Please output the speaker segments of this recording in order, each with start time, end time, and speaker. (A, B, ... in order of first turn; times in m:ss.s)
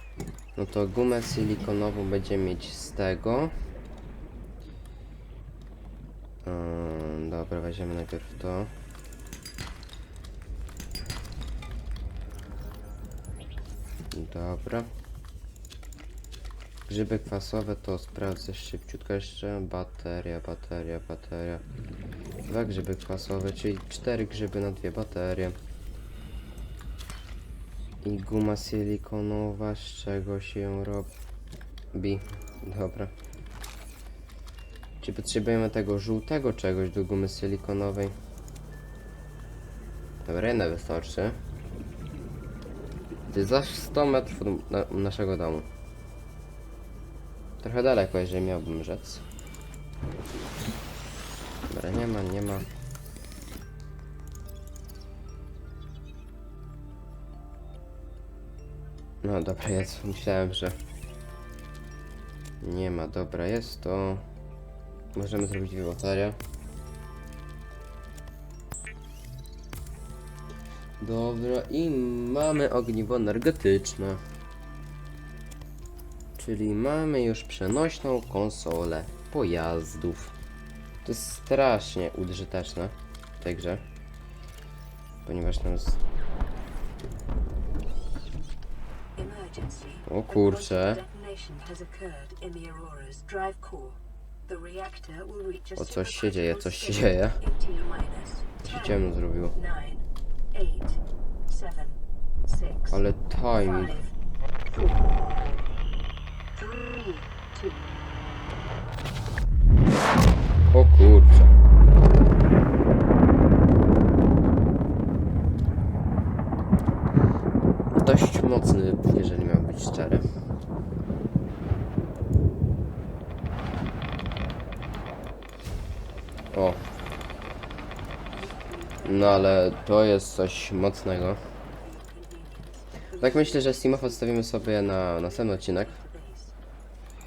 0:00.6-0:03.5 A
0:06.4-0:08.7 A
0:14.1-0:14.9 A
0:16.9-0:21.6 A
0:22.4-0:25.6 A
0:28.0-0:31.1 A
0:31.9-0:33.1 A
0:35.0-0:38.1 A
0:40.2-0:41.4 A
0:43.3-0:45.7 A
0:47.6-0:49.2 A
0:51.7-0:52.7 A
0:59.2-1:00.8 A
1:02.6-1:04.2 A
1:05.1-1:06.4 A
1:11.0-1:14.2 A
1:16.4-1:20.3 A
1:21.0-1:23.8 A
1:25.2-1:26.0 A
1:29.2-1:39.0 B
1:30.1-1:31.0 A
1:35.7-1:37.4 A
1:38.6-1:39.5 A
1:39.5-1:43.0 B
1:42.9-1:44.0 A
1:43.6-1:44.1 B
1:44.6-1:45.7 B
1:46.5-1:47.9 B
1:50.7-1:51.6 A
1:57.9-2:00.2 A
2:06.5-2:06.8 A
2:08.3-2:09.9 B
2:09.0-2:11.4 A
2:11.8-2:16.5 B
2:13.2-2:16.0 A